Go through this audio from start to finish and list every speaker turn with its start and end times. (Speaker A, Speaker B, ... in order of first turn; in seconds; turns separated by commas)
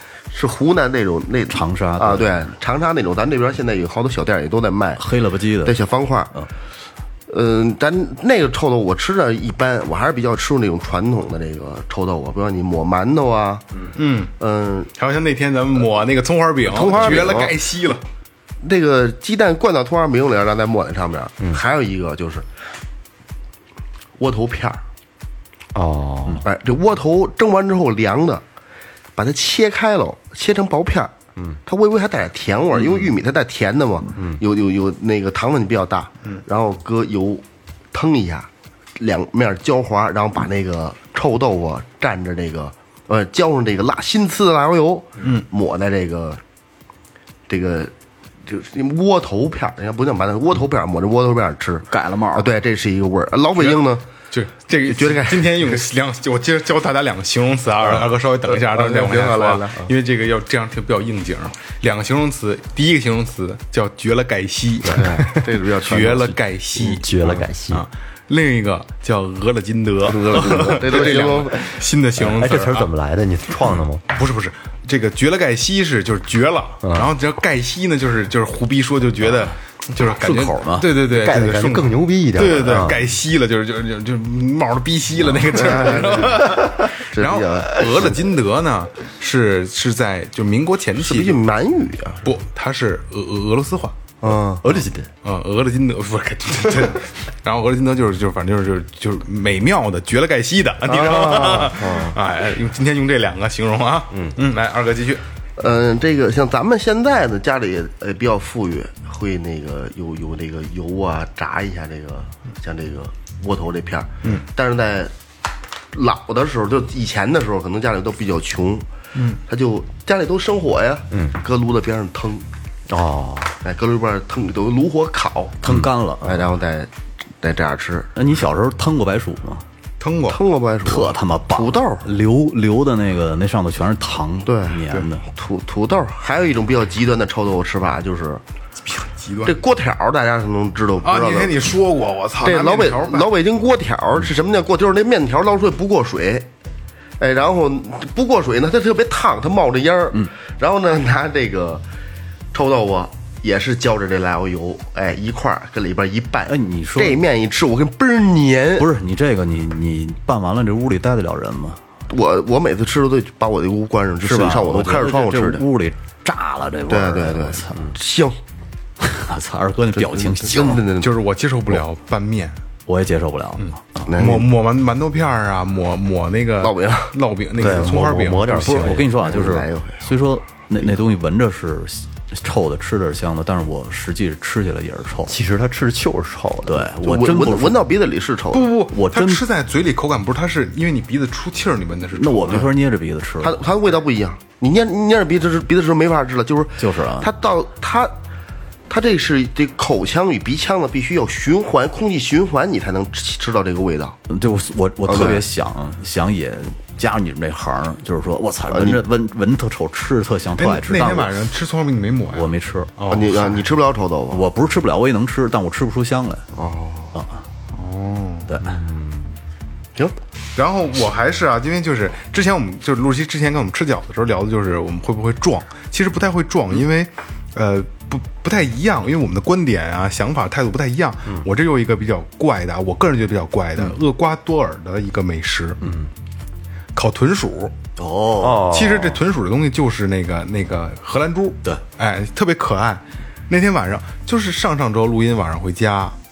Speaker A: 0.3-5.0, Speaker B: 1.5-2.5, Speaker B: 5.0-5.8, Speaker A: 5.6-6.3, Speaker A: 7.3-13.7, Speaker C: 13.9-14.3, Speaker A: 14.4-14.9, Speaker C: 15.0-18.0, Speaker A: 16.6-17.6, Speaker A: 18.6-22.5, Speaker A: 24.2-24.8, Speaker D: 25.7-26.5, Speaker A: 26.4-28.4, Speaker A: 29.2-31.1, Speaker A: 31.7-46.4, Speaker D: 34.2-34.4, Speaker C: 45.2-45.5, Speaker A: 47.5-47.9, Speaker A: 48.5-54.0, Speaker B: 51.9-52.5, Speaker C: 53.6-72.9, Speaker A: 54.8-55.8, Speaker A: 57.9-59.9, Speaker A: 64.8-66.4, Speaker D: 66.8-67.9, Speaker A: 70.0-71.7, Speaker D: 72.2-74.0, Speaker C: 74.1-91.4, Speaker D: 76.8-77.1, Speaker B: 80.0-81.0, Speaker D: 81.0-83.0, Speaker A: 85.5-88.2, Speaker A: 91.0-92.3, Speaker C: 92.2-94.0, Speaker A: 94.2-94.6, Speaker B: 94.6-95.1, Speaker C: 95.2-105.2, Speaker A: 100.9-102.2, Speaker A: 105.6-115.1, Speaker A: 115.9-118.9, Speaker C: 119.2-119.4, Speaker A: 119.5-122.5, Speaker D: 121.1-121.4, Speaker D: 122.9-123.6, Speaker A: 123.6-125.6, Speaker B: 125.6-126.4, Speaker A: 126.2-126.9, Speaker A: 127.4-128.1, Speaker B: 128.2-129.6, Speaker C: 130.0-130.4, Speaker A: 130.3-132.1, Speaker B: 130.8-135.2, Speaker A: 134.4-138.4, Speaker C: 138.8-139.6, Speaker A: 139.4-141.6, Speaker C: 141.0-143.3, Speaker A: 142.4-146.5, Speaker A: 147.2-151.8, Speaker A: 152.5-158.9, Speaker B: 156.5-157.2, Speaker B: 158.8-161.8, Speaker A: 162.1-165.6, Speaker B: 164.2-167.8, Speaker A: 166.9-168.4, Speaker B: 169.0-170.8, Speaker A: 170.0-171.2, Speaker C: 171.0-172.6, Speaker B: 172.9-174.1, Speaker C: 173.6-178.9, Speaker A: 174.1-174.5, Speaker A: 176.6-177.2, Speaker D: 177.6-179.1, Speaker B: 178.6-185.3, Speaker A: 179.2-180.0, Speaker D: 185.3-186.9, Speaker B: 186.7-187.8, Speaker A: 187.0-188.7, Speaker C: 188.5-192.7, Speaker B: 188.9-189.4, Speaker B: 192.1-193.6, Speaker A: 193.4-198.1, Speaker B: 196.8-197.3, Speaker A: 198.9-204.2, Speaker B: 204.3-211.3, Speaker A: 205.1-205.4, Speaker A: 208.7-209.0, Speaker C: 210.6-213.7, Speaker B: 212.3-212.9, Speaker A: 213.1-214.4, Speaker B: 214.3-216.4, Speaker A: 216.5-217.1, Speaker B: 217.1-217.4, Speaker C: 217.7-218.5, Speaker B: 218.5-218.8, Speaker D: 218.8-219.1, Speaker C: 220.6-235.8, Speaker C: 236.9-237.8, Speaker B: 238.0-238.8, Speaker D: 238.4-239.2, Speaker C: 238.6-246.2